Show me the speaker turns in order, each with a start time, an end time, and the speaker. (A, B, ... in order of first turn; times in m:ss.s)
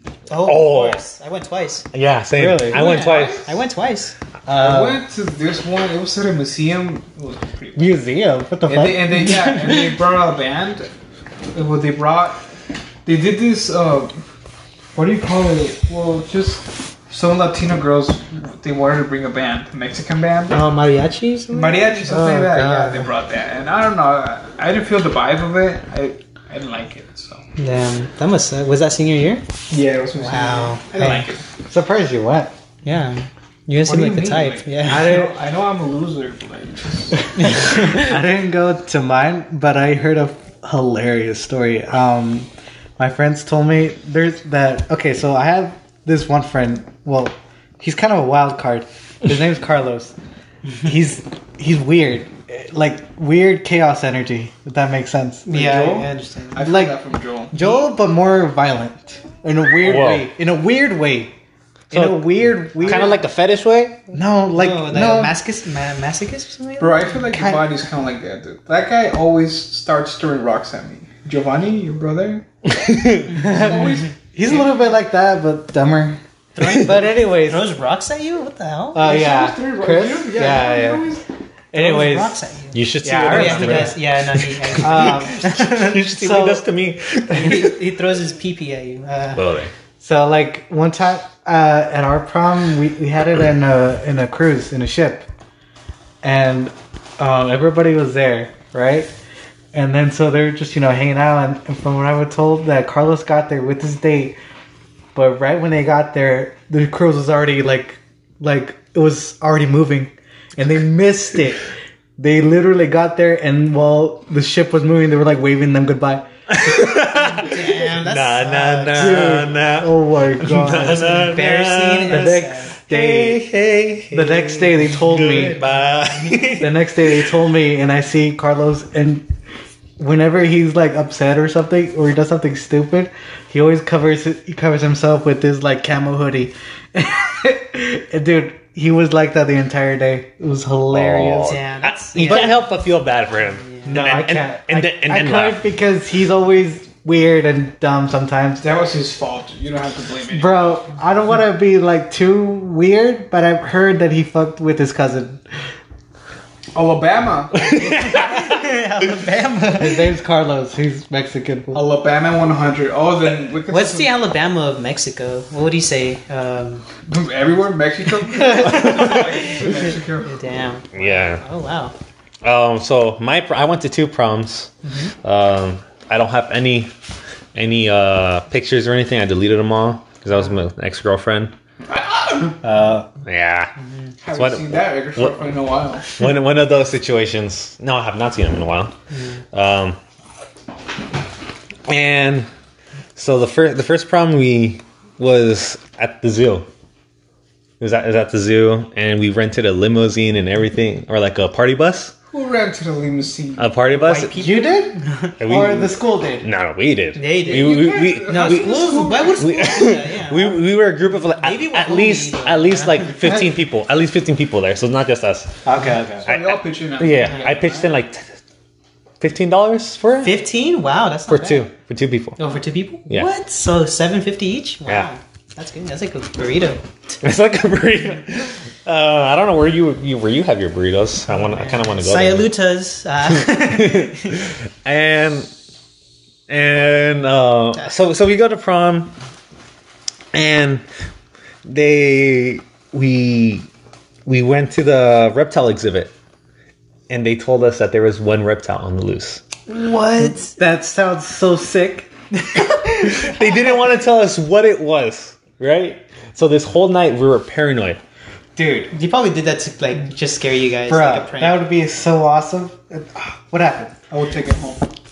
0:00.3-0:01.9 A
0:00.4-0:01.0 B
0:01.9-0:03.5 B
0:02.4-0:02.9 C
0:02.7-0:04.2 A
0:02.7-0:03.5 D
0:04.5-0:05.0 C
0:04.6-0:07.9 D
0:07.8-0:09.6 C
0:08.7-0:10.9 D
0:11.5-0:12.4 D
0:13.0-0:14.2 D
0:15.0-0:20.6 D
0:20.5-0:23.1 A
0:21.5-0:27.4 D
0:27.6-0:29.4 A
0:29.7-0:31.4 D
0:30.2-0:31.4 A
0:31.7-0:32.5 C
0:32.8-0:35.2 A
0:33.8-0:37.4 D
0:34.8-0:35.3 C
0:37.4-0:38.1 A
0:37.6-0:50.1 C
0:50.8-0:55.8 C
0:55.5-0:56.6 A
0:55.5-0:57.5 D
0:56.6-0:57.0 C
0:57.5-1:01.3 C
0:57.5-0:57.9 A
0:59.8-1:00.3 B
1:01.9-1:03.2 C
1:01.9-1:04.1 B
1:04.1-1:05.4 C
1:04.5-1:07.2 A
1:06.8-1:12.5 D
1:07.3-1:07.7 C
1:12.7-1:13.3 B
1:13.3-1:14.7 D
1:13.3-1:17.6 C
1:16.6-1:19.1 A
1:18.9-1:21.1 C
1:19.0-1:21.2 D
1:21.7-1:22.4 C
1:21.7-1:25.3 A
1:22.7-1:27.8 B
1:23.0-1:24.0 C
1:24.8-1:26.7 C
1:27.3-1:29.5 A
1:29.4-1:29.7 B
1:30.0-1:35.3 C
1:36.2-1:39.1 C
1:39.7-1:44.4 C
1:45.2-1:51.6 C
1:52.2-1:56.9 C
1:56.5-2:07.1 B
1:57.1-1:59.4 A
1:59.0-2:01.4 C
2:01.3-2:02.7 A
2:02.1-2:03.5 C
2:04.1-2:05.6 C
2:05.2-2:06.5 A
2:06.6-2:09.3 C
2:10.0-2:21.6 C
2:20.9-2:25.6 B
2:21.4-2:22.6 A
2:22.2-2:22.5 C
2:23.8-2:28.6 C
2:28.6-2:30.6 D
2:30.3-2:35.4 C
2:36.7-2:38.1 D
2:37.6-2:38.6 B
2:37.7-2:40.1 A
2:39.8-2:41.9 C
2:41.7-2:44.1 D
2:43.7-2:46.8 A
2:47.1-2:50.4 D
2:48.4-2:52.0 A
2:50.9-2:51.4 B
2:52.4-2:56.9 B
2:54.8-2:55.1 A
2:57.6-3:01.5 B
3:01.8-3:02.6 D
3:02.6-3:03.1 C
3:03.2-3:03.7 B
3:04.2-3:06.1 D
3:04.3-3:05.5 B
3:06.2-3:08.9 B
3:09.1-3:09.4 A
3:09.5-3:10.0 B
3:11.9-3:12.5 B
3:13.2-3:16.7 B
3:17.8-3:22.2 B
3:22.3-3:23.7 D
3:23.6-3:24.4 B
3:23.9-3:25.4 A
3:24.3-3:26.5 C
3:25.4-3:35.6 B
3:27.2-3:30.6 A
3:27.4-3:29.4 D
3:31.4-3:33.4 A
3:35.6-3:36.3 C
3:36.2-3:37.9 D
3:36.2-3:38.3 B
3:39.2-3:40.4 B
3:40.2-3:41.7 A
3:41.3-3:42.4 B
3:42.4-3:47.2 A
3:47.2-3:52.5 B
3:51.6-3:54.4 A
3:53.4-3:55.5 B
3:56.5-3:59.1 B
4:00.3-4:00.8 B
4:01.7-4:03.7 B
4:04.3-4:06.1 B
4:07.1-4:09.4 B
4:09.7-4:10.6 A
4:10.2-4:12.1 C
4:12.7-4:13.5 A
4:13.0-4:18.0 B
4:18.6-4:18.9 C
4:18.9-4:21.6 A
4:20.9-4:24.0 C
4:24.1-4:24.9 D